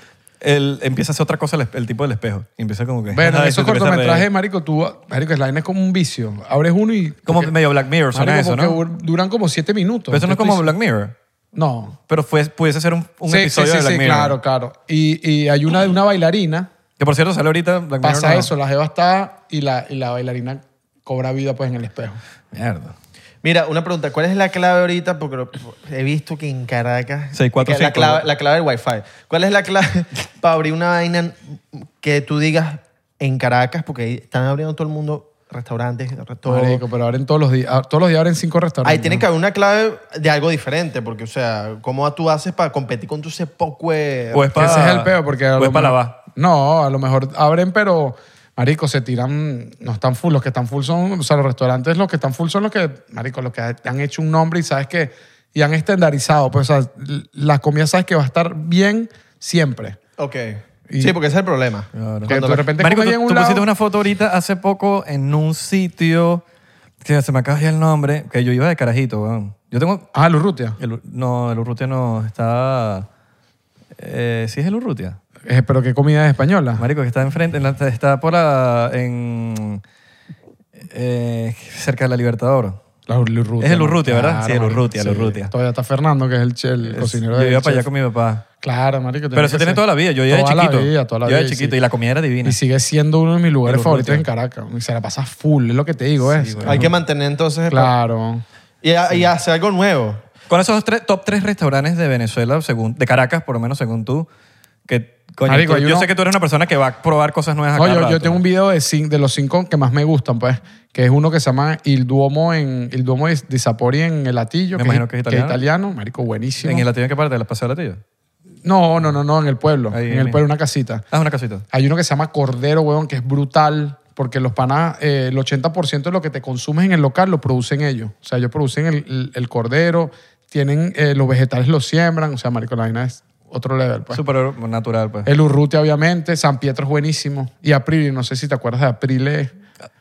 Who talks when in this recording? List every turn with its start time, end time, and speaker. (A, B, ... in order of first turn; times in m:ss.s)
0:00.4-0:04.3 A
0:03.1-0:07.5 B
0:07.3-0:08.8 A
0:08.1-0:10.7 B
0:10.1-0:11.2 A
0:11.6-0:12.0 B
0:12.1-0:14.4 A
0:13.3-0:16.7 B
0:17.0-0:18.5 A
0:18.0-0:22.2 B
0:22.5-0:23.0 A
0:23.4-0:36.8 C
0:27.3-0:28.3 A
0:36.5-0:39.2 B
0:38.8-0:44.9 C
0:44.3-0:46.2 A
0:44.6-1:00.0 B
1:00.2-1:02.7 C
1:00.9-1:01.2 B
1:01.9-1:06.4 A
1:02.3-1:03.6 B
1:07.0-1:10.1 A
1:10.1-1:10.8 B
1:10.8-1:13.1 A
1:14.0-1:15.2 A
1:15.5-1:16.8 B
1:16.8-1:19.8 A
1:20.9-1:22.8 A
1:23.1-1:27.9 B
1:23.6-1:25.5 A
1:26.8-1:28.4 A
1:28.6-1:31.8 B
1:29.3-1:32.6 A
1:32.4-1:36.9 B
1:33.6-1:34.3 A
1:36.2-1:36.9 A
1:36.7-1:37.9 C
1:37.7-1:38.4 B
1:38.8-1:40.2 C
1:40.5-1:44.3 A
1:44.9-1:48.4 A
1:45.4-1:46.1 B
1:47.8-1:56.9 B
1:54.8-1:55.6 A
1:56.6-1:58.0 A
1:58.6-2:01.0 B
1:59.9-2:00.4 A
2:01.1-2:01.6 A
2:01.7-2:14.2 B
2:14.1-2:15.3 A
2:15.2-2:19.5 B